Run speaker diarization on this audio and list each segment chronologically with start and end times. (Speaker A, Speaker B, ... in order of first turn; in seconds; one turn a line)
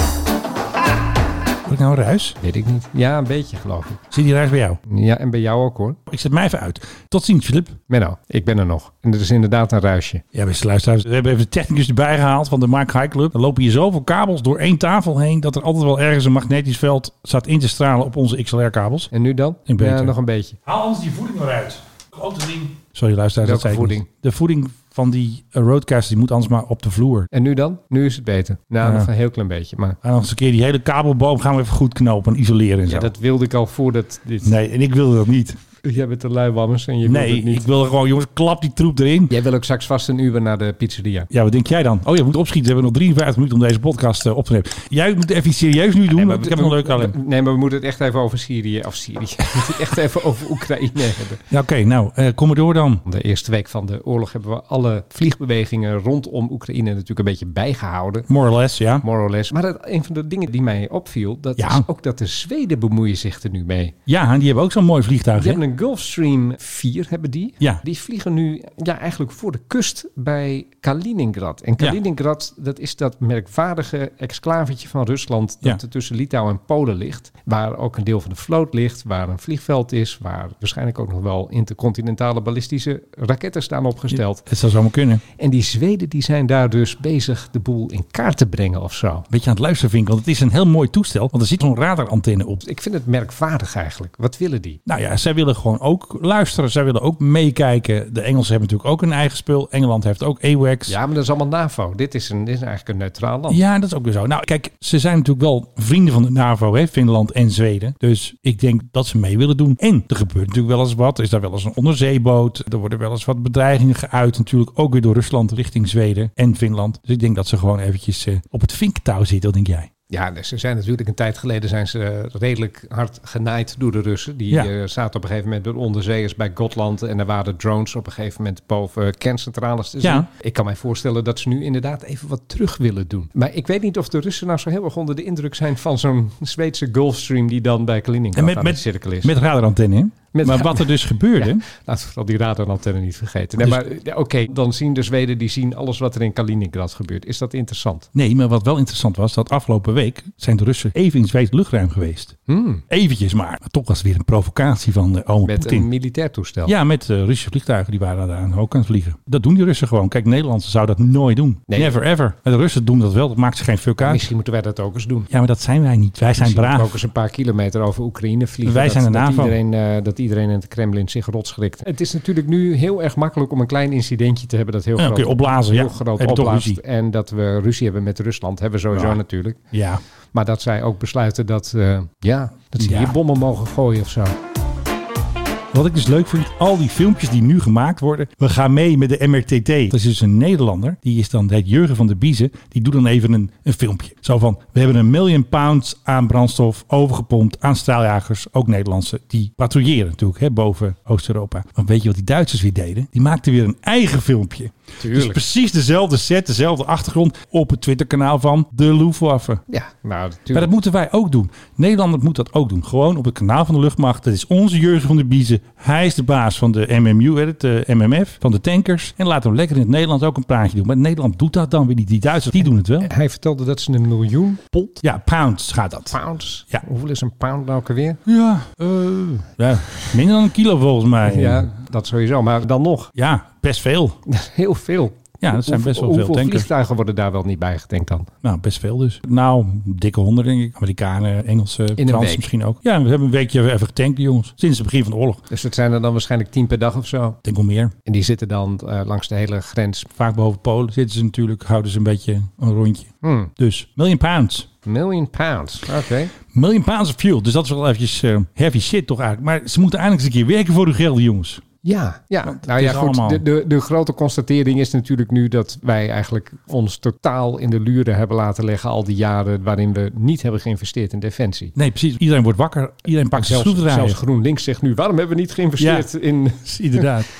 Speaker A: 1.6-2.4
Speaker B: 2.4-4.1
Speaker A: 4.1-4.8
Speaker B: 4.8-6.0
Speaker A: 6.1-7.8
Speaker B: 7.9-10.2
Speaker A: 10.3-19.1
Speaker B: 19.1-20.6
Speaker A: 19.7-27.3
Speaker B: 23.4-24.1
Speaker B: 27.3-30.0
Speaker A: 28.8-29.1
Speaker A: 30.0-33.1
Speaker B: 32.9-34.5
Speaker A: 34.4-35.6
Speaker B: 35.8-37.6
Speaker A: 37.0-39.3
Speaker B: 39.3-41.3
Speaker A: 41.3-47.1
Speaker B: 46.1-51.4
Speaker A: 51.5-53.0
Speaker B: 53.0-58.3
Speaker A: 58.3-59.0
Speaker B: 59.0-63.9
Speaker A: 61.6-61.9
Speaker A: 64.1-65.6
Speaker B: 65.3-84.5
Speaker A: 84.1-85.2
Speaker B: 85.4-89.3
Speaker A: 89.3-92.6
Speaker B: 92.6-94.8
Speaker A: 94.8-101.0
Speaker B: 100.9-103.6
Speaker A: 103.5-119.9
Speaker B: 120.1-139.3
Speaker A: 130.0-130.3
Speaker A: 138.3-141.6
Speaker B: 140.3-148.1
Speaker A: 148.1-152.4
Speaker B: 152.5-152.8
Speaker A: 152.9-155.9
Speaker B: 155.4-156.7
Speaker A: 156.6-164.2
Speaker B: 161.7-161.9
Speaker B: 164.0-165.3
Speaker A: 165.3-167.0
Speaker B: 166.4-179.6
Speaker A: 168.6-169.6
Speaker A: 175.0-176.8
Speaker A: 178.9-179.2
Speaker A: 179.7-180.0
Speaker B: 180.3-184.3
Speaker A: 182.8-183.2
Speaker A: 185.7-209.6
Speaker B: 205.0-205.4
Speaker B: 209.7-210.7
Speaker A: 210.5-223.1
Speaker B: 223.0-225.0
Speaker A: 225.0-226.2
Speaker B: 226.1-228.2
Speaker A: 228.2-231.7
Speaker B: 231.2-233.1
Speaker A: 233.1-234.2
Speaker B: 234.3-238.3
Speaker A: 235.4-236.7
Speaker A: 238.4-245.4
Speaker B: 242.0-242.4
Speaker B: 245.5-247.4
Speaker A: 247.4-247.9
Speaker B: 248.0-250.1
Speaker A: 250.2-254.7
Speaker B: 253.2-253.5
Speaker B: 254.8-256.3
Speaker A: 256.5-261.6
Speaker B: 261.8-271.7
Speaker A: 262.4-263.4
Speaker A: 271.8-274.2
Speaker B: 273.3-277.1
Speaker A: 275.8-276.1
Speaker A: 276.6-277.3